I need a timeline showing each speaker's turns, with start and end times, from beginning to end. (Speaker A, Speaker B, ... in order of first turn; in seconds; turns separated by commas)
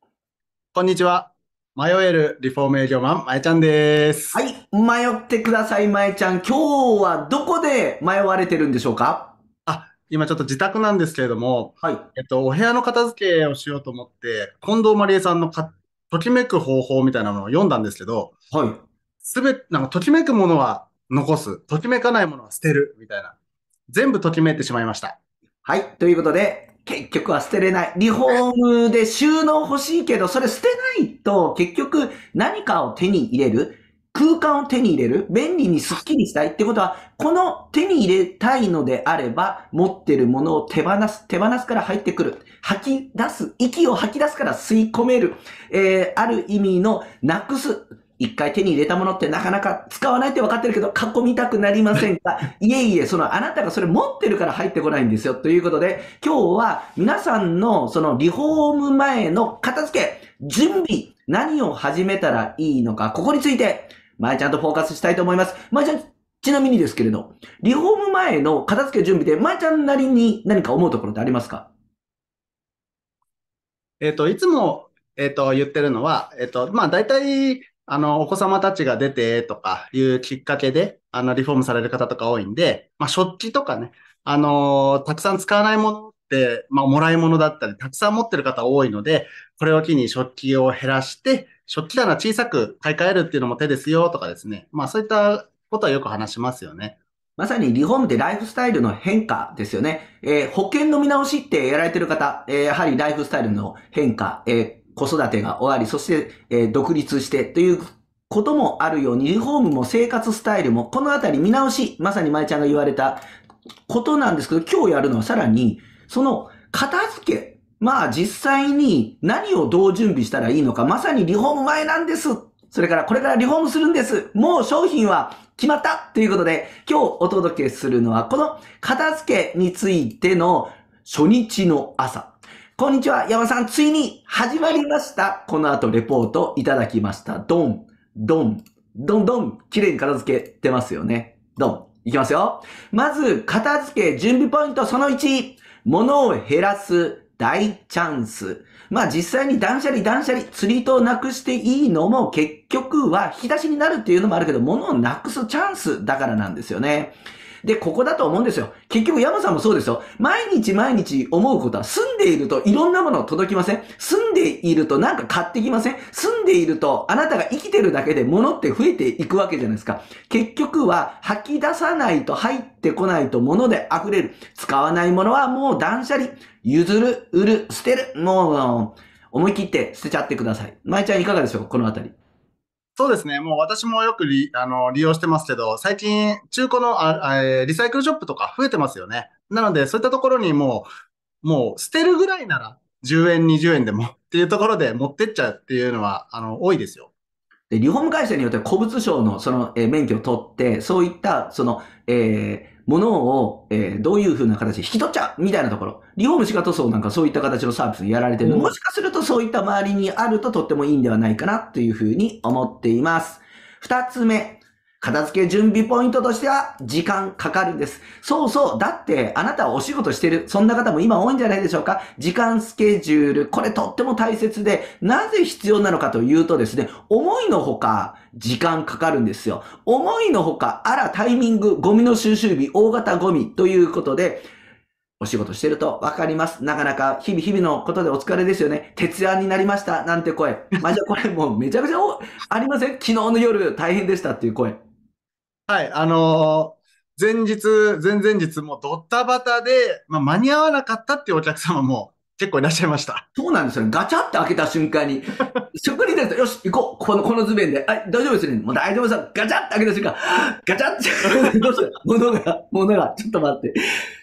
Speaker A: 0.7-4.4, Speaker B: 4.3-9.3, Speaker A: 9.7-18.3, Speaker B: 18.5-18.8, Speaker A: 19.2-23.4, Speaker A: 23.9-25.2, Speaker B: 25.6-71.7, Speaker A: 74.0-97.0, Speaker B: 97.4-113.2, Speaker B: 113.9-182.1, Speaker A: 183.0-190.9, Speaker A: 191.4-197.1, Speaker B: 197.7-234.4, Speaker A: 208.4-208.7, Speaker B: 235.2-244.8, Speaker A: 245.7-253.2, Speaker B: 253.3-263.7